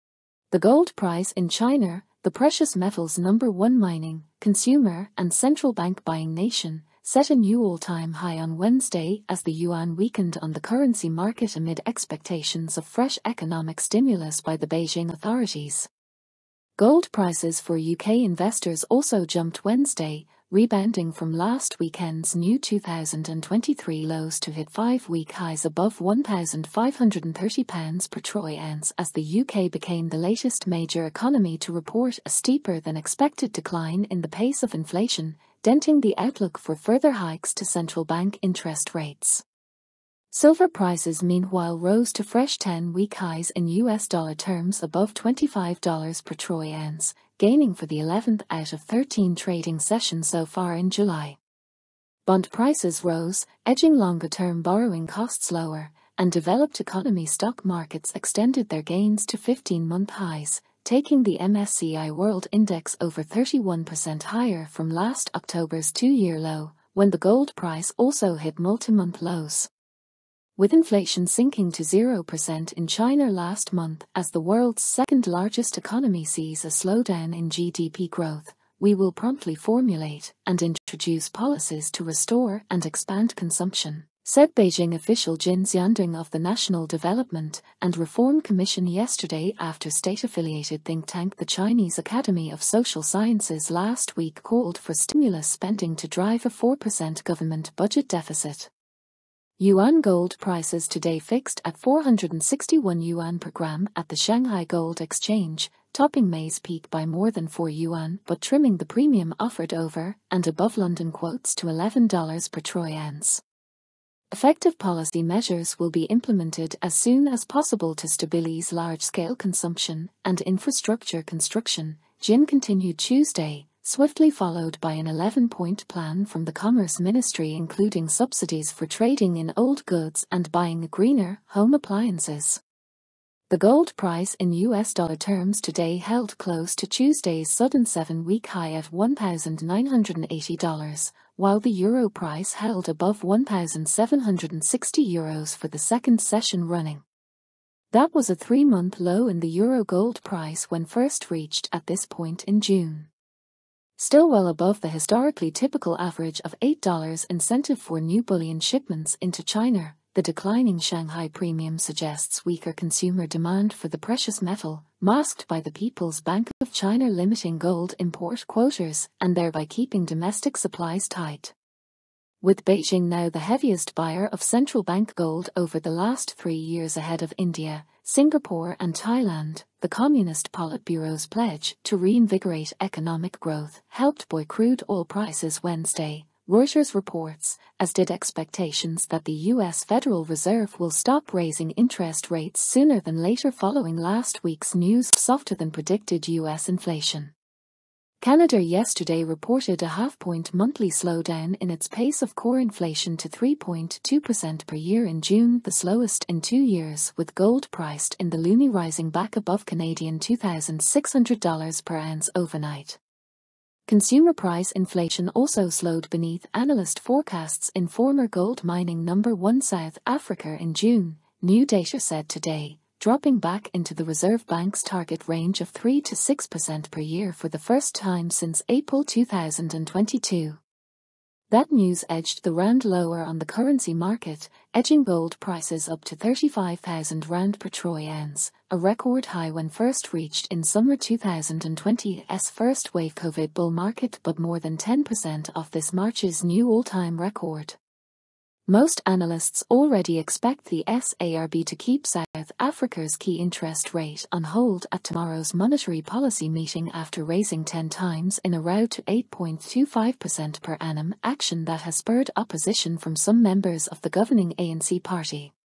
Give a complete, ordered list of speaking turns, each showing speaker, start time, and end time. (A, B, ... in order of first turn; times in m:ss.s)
0:00.5-0:15.9 A
0:16.8-0:39.4 A
0:40.3-0:51.4 A
0:52.2-1:09.7 A
1:10.6-1:38.7 A
1:39.6-1:53.4 A
1:54.3-2:12.6 A
2:13.5-2:27.0 A
2:27.9-2:33.1 A
2:34.0-2:51.5 A
2:52.4-3:17.3 A
3:18.2-3:33.0 A
3:33.9-3:50.6 A
3:51.5-4:07.8 A
4:08.6-4:25.5 A